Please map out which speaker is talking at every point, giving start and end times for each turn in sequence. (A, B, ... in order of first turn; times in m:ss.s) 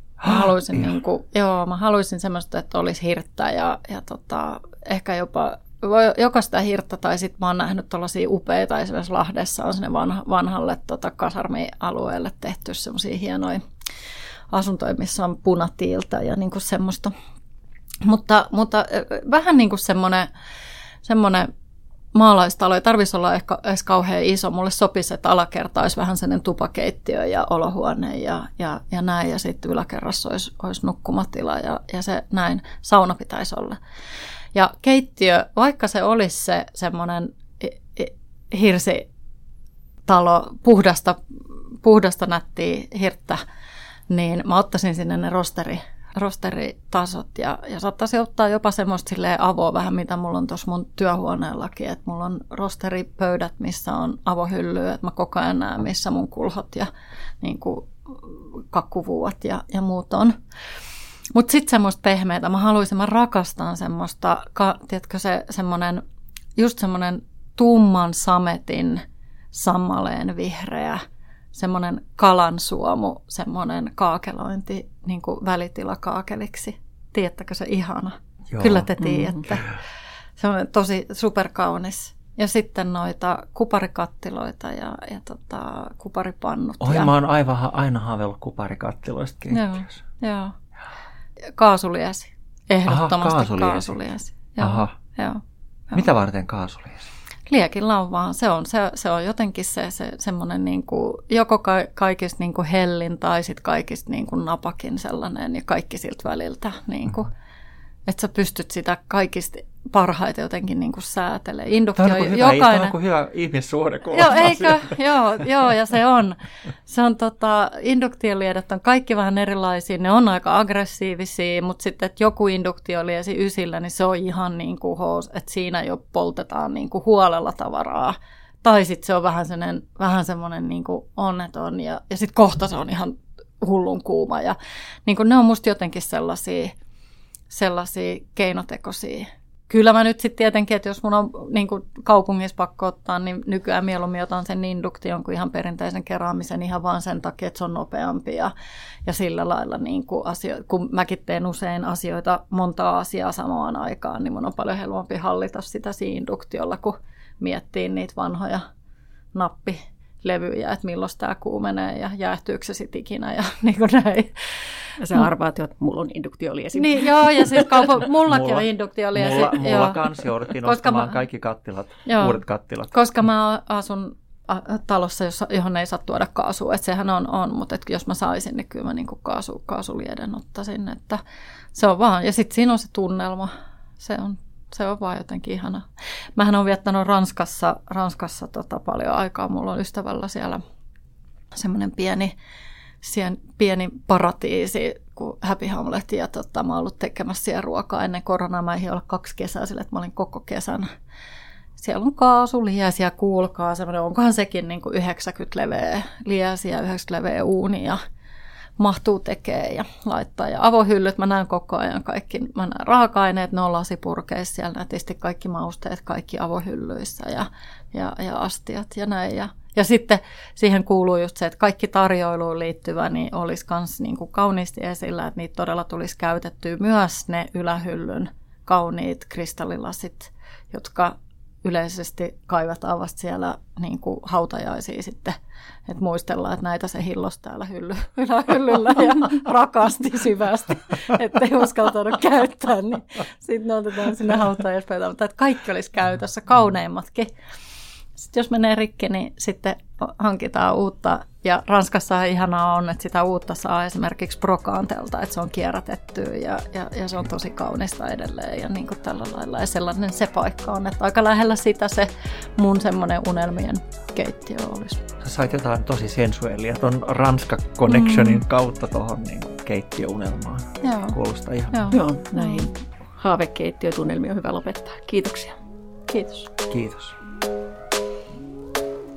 0:00.2-0:00.8 A
0:00.2-0:13.6 B
0:14.5-0:17.1 B
0:18.0-0:20.3 B
0:21.0-0:21.5 B
0:22.1-0:33.8 B
0:34.5-0:39.1 B
0:40.1-0:41.2 B
0:41.8-0:43.4 B
0:44.1-0:56.9 B
0:57.4-1:00.4 B
1:01.3-1:06.0 B
1:06.6-1:11.0 B
1:11.5-1:19.7 B
1:18.5-1:18.9 A
1:19.0-1:19.3 C
1:20.4-1:27.1 B
1:26.8-1:30.0 A
1:29.5-1:30.5 B
1:31.6-1:36.1 B
1:32.9-1:34.0 A
1:34.6-1:35.0 A
1:35.9-1:37.1 A
1:37.5-1:47.3 B
1:48.1-1:53.0 B
1:52.0-1:55.0 A
1:54.1-2:16.8 B
2:17.5-2:28.5 B
2:29.1-2:38.6 B
2:39.3-2:45.3 B
2:45.0-2:47.9 C
2:46.8-2:51.2 B
2:48.3-2:52.9 A
2:52.1-3:01.2 B
3:01.7-3:10.6 B
3:11.5-3:12.4 B
3:13.0-3:20.9 B
3:21.8-3:28.0 B
3:28.8-3:55.4 B
3:55.9-4:07.3 B
4:08.2-4:25.0 B
4:25.2-4:32.0 A
4:27.9-4:28.4 B
4:30.8-4:31.2 B
4:31.7-4:32.7 B
4:31.9-4:35.6 C
4:36.1-4:36.5 B
4:36.7-4:37.2 A